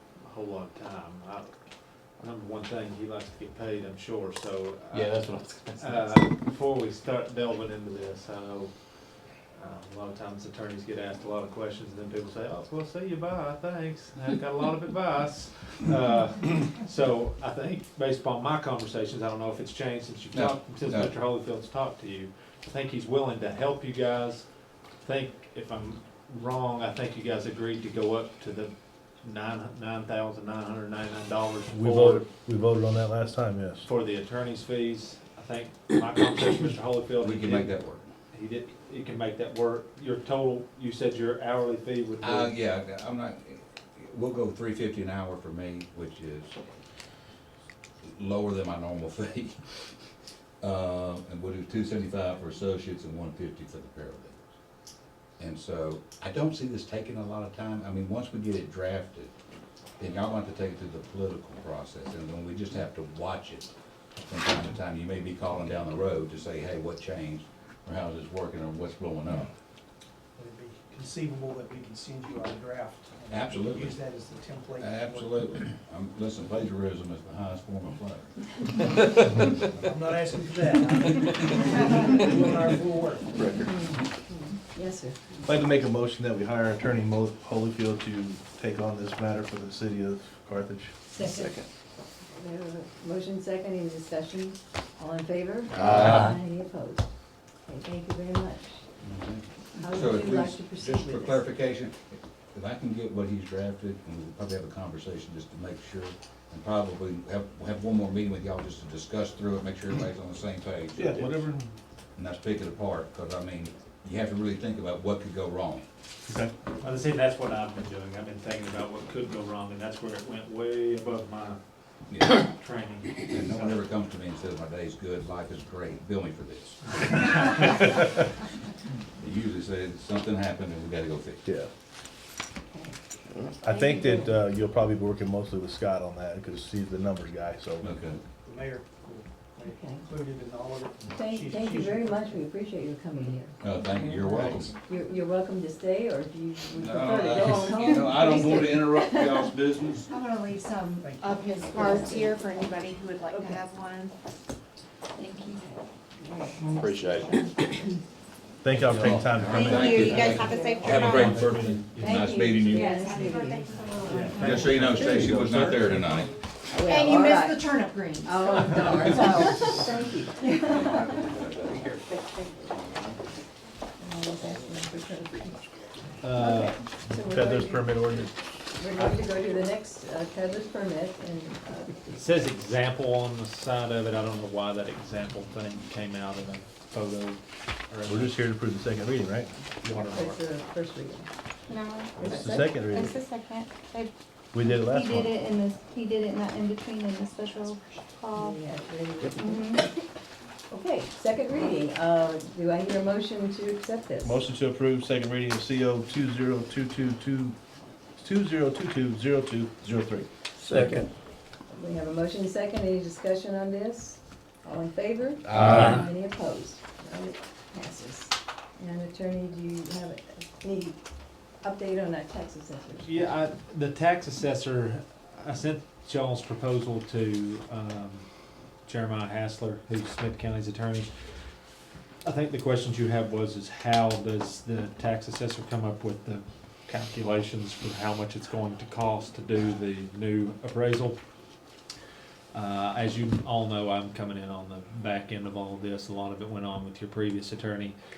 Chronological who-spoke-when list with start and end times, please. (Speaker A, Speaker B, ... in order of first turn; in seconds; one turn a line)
Speaker A: 0.1-5.2
Speaker B: 4.9-6.2
Speaker A: 5.8-32.2
Speaker B: 20.3-21.1
Speaker C: 31.7-33.9
Speaker A: 33.8-37.8
Speaker B: 37.2-38.1
Speaker A: 38.3-42.5
Speaker B: 42.2-46.6
Speaker B: 48.0-54.4
Speaker B: 55.4-59.3
Speaker B: 60.0-69.5
Speaker D: 70.3-75.4
Speaker B: 73.3-73.9
Speaker B: 74.8-78.3
Speaker D: 79.9-81.1
Speaker D: 81.7-83.4
Speaker B: 83.4-83.7
Speaker E: 83.6-85.2
Speaker C: 85.4-91.0
Speaker E: 91.1-91.5
Speaker B: 91.2-91.6
Speaker E: 92.3-97.1
Speaker B: 95.8-96.3
Speaker A: 95.8-96.2
Speaker E: 97.6-98.8
Speaker B: 99.0-111.2
Speaker E: 99.7-101.5
Speaker C: 110.9-111.8
Speaker B: 112.2-115.8
Speaker C: 116.3-116.5
Speaker A: 116.8-121.6
Speaker B: 122.1-122.4
Speaker A: 122.2-123.8
Speaker B: 123.3-126.8
Speaker B: 129.2-131.5
Speaker C: 131.4-131.7
Speaker E: 132.7-132.9
Speaker E: 133.6-134.4
Speaker C: 133.6-137.9
Speaker B: 137.8-138.2
Speaker D: 138.4-142.3
Speaker E: 139.6-140.0
Speaker E: 141.1-149.5
Speaker B: 143.6-144.7
Speaker B: 146.8-150.1
Speaker D: 147.2-147.7
Speaker F: 150.1-154.1
Speaker D: 151.0-151.3
Speaker A: 151.7-152.3
Speaker E: 151.7-152.7
Speaker E: 153.3-153.6
Speaker G: 155.2-155.7
Speaker E: 155.6-157.5
Speaker B: 156.7-157.3
Speaker C: 158.6-160.4
Speaker B: 158.9-162.9
Speaker D: 159.0-161.1
Speaker G: 159.5-161.4
Speaker E: 160.5-161.0
Speaker A: 160.8-162.2
Speaker E: 162.0-164.3
Speaker F: 162.7-164.6
Speaker G: 163.5-164.1
Speaker A: 164.0-166.3
Speaker D: 164.3-166.2
Speaker B: 164.4-166.3
Speaker E: 164.9-165.3
Speaker E: 166.7-167.6
Speaker F: 166.8-169.6
Speaker E: 168.2-171.3
Speaker B: 170.7-171.9
Speaker E: 172.1-172.8
Speaker E: 174.0-175.6
Speaker A: 176.2-176.8
Speaker E: 176.3-182.2
Speaker C: 177.0-178.3
Speaker A: 178.9-179.3
Speaker A: 182.1-188.4
Speaker C: 188.0-189.5
Speaker A: 189.8-190.4
Speaker E: 190.1-191.3
Speaker G: 191.7-198.6
Speaker C: 192.2-193.2
Speaker E: 192.3-192.7
Speaker C: 194.5-195.3
Speaker E: 198.4-200.1
Speaker G: 199.3-199.9
Speaker E: 200.7-204.4
Speaker C: 204.2-207.6
Speaker C: 208.2-211.0
Speaker B: 210.6-211.1
Speaker E: 211.7-221.0
Speaker B: 215.5-216.0
Speaker D: 215.6-215.8
Speaker E: 221.6-223.3
Speaker A: 223.0-228.3
Speaker A: 228.8-231.4
Speaker A: 232.2-241.2
Speaker A: 242.5-247.9